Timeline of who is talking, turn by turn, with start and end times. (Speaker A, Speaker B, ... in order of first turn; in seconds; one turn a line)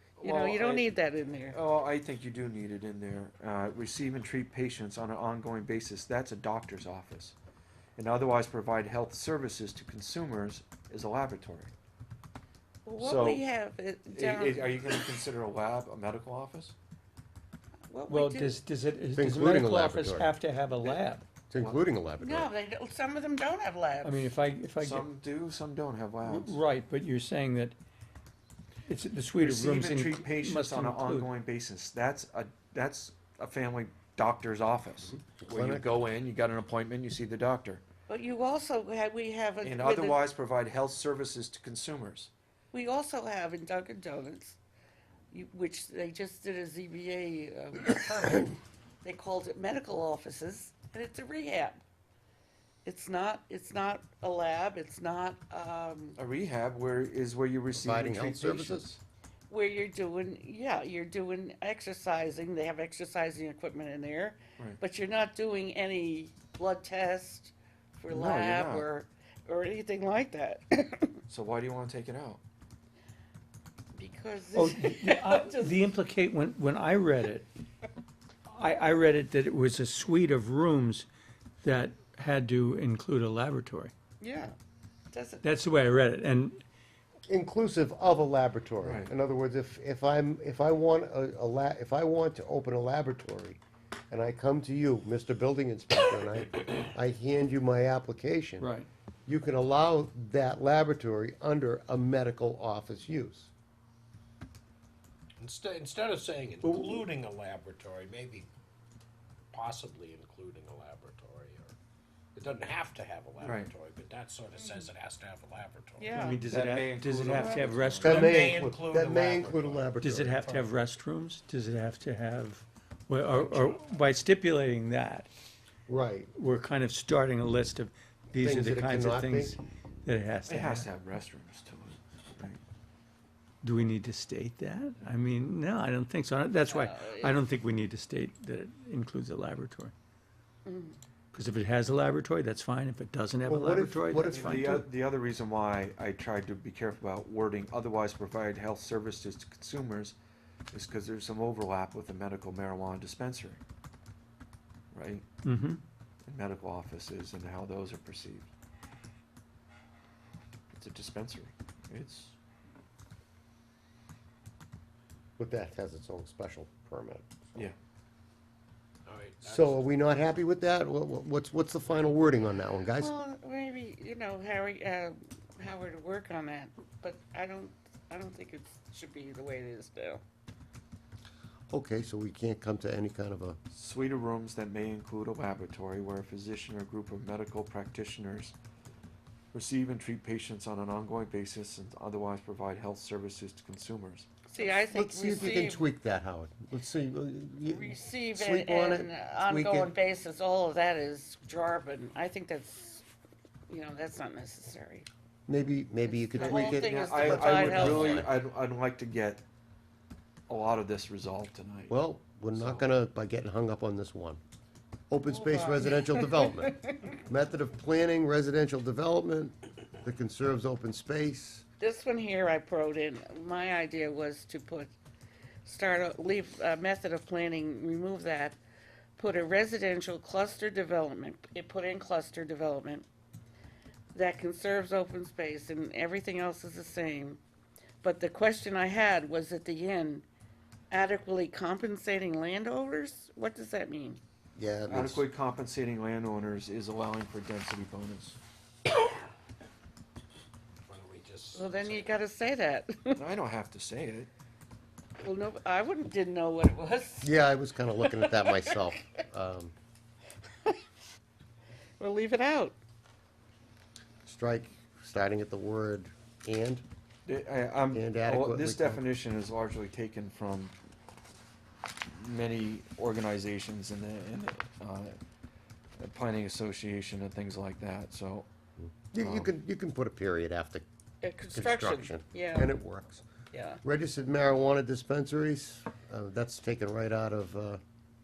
Speaker A: 0.2-0.9
Speaker B: 0.2-1.6
Speaker A: 1.5-7.3
Speaker A: 8.0-11.7
Speaker B: 12.9-15.1
Speaker A: 13.0-13.4
Speaker A: 14.1-16.8
Speaker B: 17.9-18.6
Speaker C: 18.1-21.2
Speaker D: 19.1-20.3
Speaker D: 21.5-22.5
Speaker B: 22.2-24.3
Speaker C: 24.0-25.1
Speaker A: 24.8-26.6
Speaker C: 26.2-27.8
Speaker C: 28.9-31.3
Speaker A: 29.4-37.8
Speaker D: 35.2-35.9
Speaker B: 38.1-40.2
Speaker A: 39.6-42.3
Speaker B: 42.7-44.6
Speaker B: 45.3-51.8
Speaker B: 52.9-56.2
Speaker A: 56.2-59.0
Speaker D: 57.7-58.9
Speaker B: 59.5-71.2
Speaker A: 68.1-68.9
Speaker A: 71.3-72.4
Speaker B: 73.9-75.8
Speaker C: 74.5-77.5
Speaker C: 78.5-81.1
Speaker C: 81.6-83.9
Speaker B: 84.2-84.5
Speaker B: 85.1-85.5
Speaker C: 85.4-86.6
Speaker D: 87.3-98.7
Speaker A: 88.8-89.1
Speaker C: 98.6-98.9
Speaker D: 99.3-103.5
Speaker E: 105.4-108.5
Speaker E: 109.5-111.7
Speaker E: 112.3-116.2
Speaker A: 113.4-113.7
Speaker B: 114.5-114.9
Speaker B: 116.0-116.5
Speaker C: 116.1-118.4
Speaker A: 116.5-118.3
Speaker B: 117.3-117.7
Speaker D: 118.0-120.5
Speaker E: 118.1-120.7
Speaker C: 120.0-125.3
Speaker D: 125.9-126.3
Speaker C: 126.3-130.9
Speaker D: 128.4-129.6
Speaker A: 130.5-132.6
Speaker C: 133.6-139.9
Speaker B: 136.7-137.4
Speaker B: 140.7-141.0
Speaker C: 141.3-144.8
Speaker D: 143.5-144.8
Speaker A: 144.2-150.2
Speaker A: 150.7-153.6
Speaker A: 154.9-155.2
Speaker C: 155.4-155.8
Speaker A: 156.3-158.5
Speaker A: 160.7-162.3
Speaker D: 165.4-167.7
Speaker E: 169.1-169.9
Speaker D: 169.4-173.1
Speaker B: 173.0-180.2
Speaker D: 181.7-183.6
Speaker A: 183.7-188.6
Speaker A: 189.5-194.3
Speaker B: 194.5-195.8
Speaker D: 194.6-199.9
Speaker B: 197.7-203.1
Speaker B: 203.7-205.1
Speaker D: 205.5-208.3
Speaker B: 206.1-208.3
Speaker A: 206.4-209.4
Speaker A: 210.5-212.0
Speaker D: 211.9-214.4
Speaker A: 212.5-212.9
Speaker D: 215.1-221.6
Speaker B: 215.3-217.1
Speaker B: 221.8-224.9
Speaker B: 225.6-228.6
Speaker B: 229.2-233.1
Speaker B: 234.1-237.4
Speaker B: 238.0-240.3
Speaker B: 240.9-244.2
Speaker D: 244.6-245.2
Speaker A: 244.9-248.4
Speaker E: 250.8-252.2
Speaker B: 251.6-253.2
Speaker A: 253.1-254.3
Speaker B: 255.2-257.3
Speaker D: 257.2-259.7
Speaker B: 258.1-258.7
Speaker B: 262.0-262.8
Speaker D: 264.2-266.9
Speaker A: 267.3-270.8
Speaker D: 267.9-269.0
Speaker A: 272.1-275.2
Speaker A: 276.0-278.5
Speaker D: 278.8-280.9
Speaker A: 279.1-279.5
Speaker B: 281.2-282.7
Speaker D: 281.5-283.2
Speaker B: 283.5-283.8
Speaker D: 283.8-287.8